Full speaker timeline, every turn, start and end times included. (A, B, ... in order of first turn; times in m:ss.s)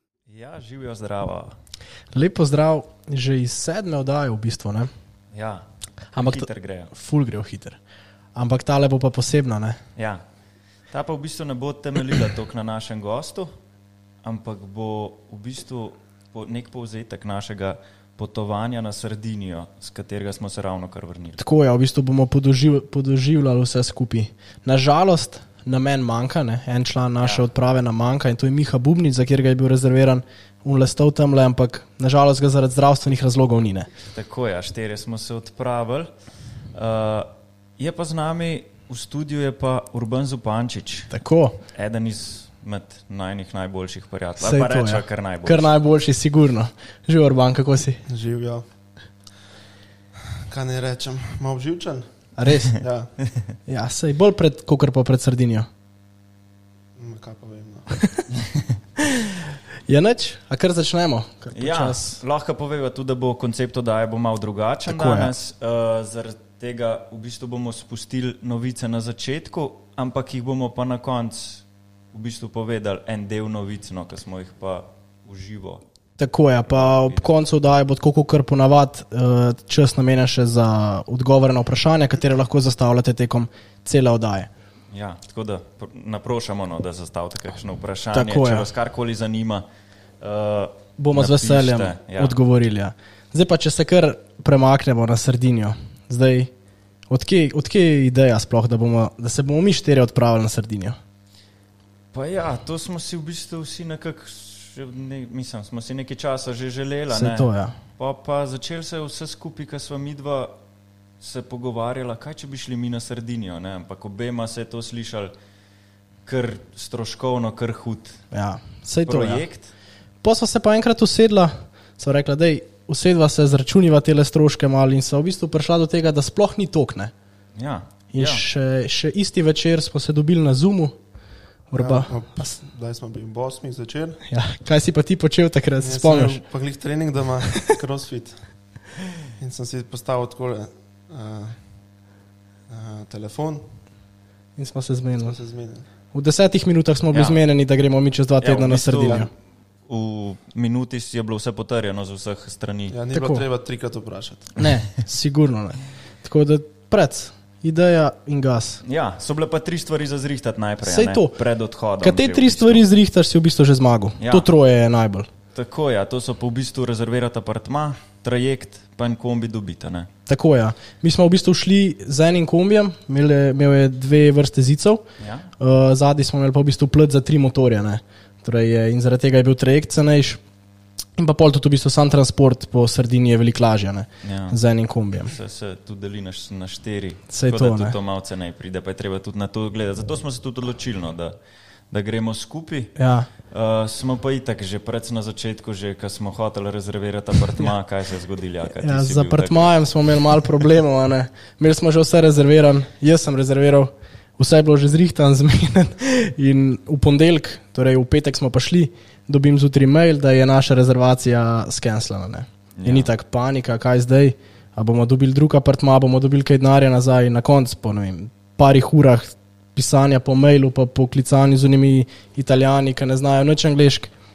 0:00.3-0:01.6 A
0:02.1-0:04.9 B
0:05.3-0:06.9 A
0:06.1-0:07.8 B
0:08.4-0:09.8 B
0:10.0-0:10.2 A
0:10.9-0:13.5 A
0:14.2-0:21.4 A
0:21.4-0:33.9 B
0:27.2-0:27.4 A
0:34.1-0:36.1 A
0:36.7-0:41.1 A
0:41.1-0:41.6 B
0:41.7-0:45.7 A
0:44.4-0:48.0 B
0:48.1-0:48.6 C
0:50.4-0:53.1 C
0:52.4-0:52.8 B
0:53.7-0:55.7 B
0:57.0-0:58.0 C
0:59.9-1:02.2 B
1:01.5-1:15.8 A
1:04.9-1:05.3 B
1:16.2-1:24.5 B
1:16.6-1:17.2 A
1:24.9-1:29.6 A
1:28.1-1:28.7 B
1:30.2-1:32.4 A
1:31.0-1:36.5 B
1:37.1-1:41.0 B
1:42.1-1:50.5 A
1:47.1-1:47.8 B
1:51.2-1:55.3 A
1:56.2-1:58.2 A
1:58.3-1:59.4 B
1:59.0-1:59.7 A
2:00.2-2:07.1 B
2:07.6-2:08.4 A
2:08.1-2:10.9 B
2:11.7-2:12.5 B
2:11.8-2:14.2 C
2:14.3-2:16.4 B
2:15.8-2:18.4 C
2:19.4-2:21.6 C
2:22.7-2:23.6 C
2:24.6-2:25.4 B
2:25.2-2:25.9 C
2:26.1-2:29.3 B
2:27.1-2:27.4 A
2:28.4-2:29.3 A
2:29.9-2:33.0 A
2:32.9-2:34.6 C
2:33.1-2:33.4 B
2:34.6-2:38.8 B
2:38.8-2:42.8 A
2:40.8-2:41.4 B
2:42.0-2:45.3 B
2:44.2-2:44.5 A
2:45.5-2:50.1 A
2:50.3-2:55.0 B
2:55.2-2:55.5 A
2:55.6-3:00.4 B
3:01.2-3:05.3 B
3:04.2-3:04.6 A
3:05.2-3:11.3 A
3:07.3-3:07.9 B
3:11.9-3:12.9 A
3:13.0-3:13.3 B
3:13.5-3:19.7 A
3:18.8-3:44.1 B
3:32.8-3:33.1 A